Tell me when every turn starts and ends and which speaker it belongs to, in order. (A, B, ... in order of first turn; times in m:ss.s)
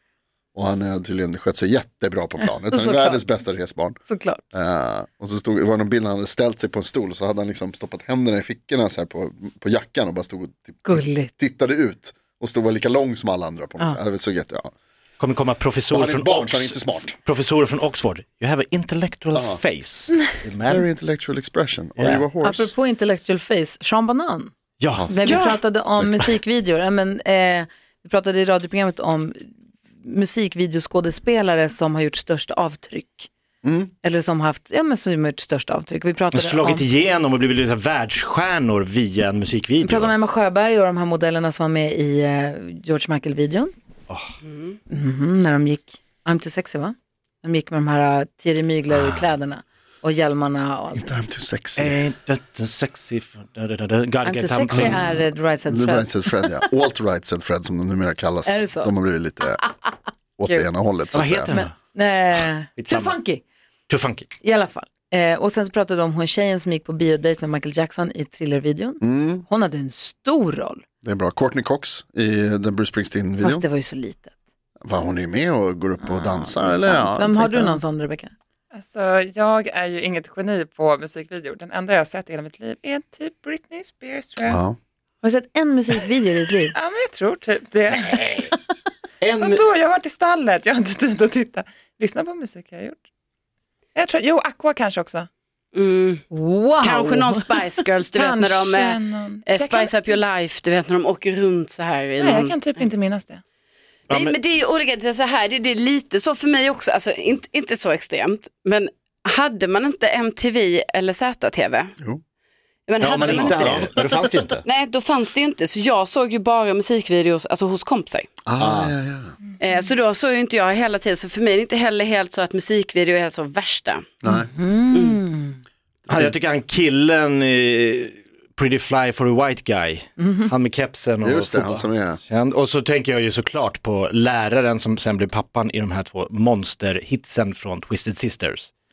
0:00.5-0:04.0 A
0:02.7-0:03.2 B
0:04.0-0:04.4 B
0:04.5-0:14.7 A
0:10.8-0:11.3 B
0:15.2-0:20.8 C
0:15.9-0:17.1 A
0:19.3-0:19.6 A
0:20.6-0:22.7 A
0:22.4-0:24.5 B
0:24.8-0:25.2 C
0:25.0-0:25.3 A
0:25.1-0:29.5 B
0:25.2-0:25.6 D
0:25.8-0:26.2 A
0:30.0-0:33.3 B
0:33.6-0:33.9 A
0:34.0-0:36.9 B
0:36.3-0:40.1 C
0:39.8-0:43.7 B
0:44.4-0:44.8 D
0:44.9-0:51.2 B
0:48.9-0:49.2 C
0:50.9-0:52.0 A
0:51.8-0:55.0 C
0:54.2-0:56.1 B
0:54.7-0:59.7 A
0:58.4-0:58.9 B
1:00.4-1:01.5 A
1:01.1-1:01.7 C
1:01.5-1:03.4 B
1:02.8-1:03.1 C
1:03.9-1:04.3 C
1:04.4-1:10.8 B
1:09.0-1:09.4 A
1:11.0-1:13.6 A
1:13.4-1:14.3 B
1:14.8-1:17.8 A
1:16.0-1:18.3 B
1:18.7-1:24.6 E
1:24.4-1:24.8 A
1:25.2-1:26.7 B
1:26.7-1:28.4 E
1:28.1-1:28.5 C
1:29.2-1:29.6 C
1:29.4-1:33.0 E
1:33.9-1:35.3 E
1:35.7-1:36.2 D
1:36.3-1:37.6 B
1:36.8-1:42.6 D
1:38.2-1:40.0 E
1:42.2-1:43.4 E
1:44.1-1:51.9 D
1:44.1-1:44.3 C
1:52.9-1:58.3 D
1:53.0-1:54.6 C
1:53.2-1:53.9 A
1:58.4-1:59.3 A
1:58.6-1:58.9 C
1:59.6-2:04.1 D
2:04.2-2:04.5 A
2:04.2-2:05.6 B
2:04.9-2:05.2 D
2:06.1-2:06.3 A
2:06.1-2:18.7 C
2:10.2-2:10.5 B
2:11.2-2:12.2 A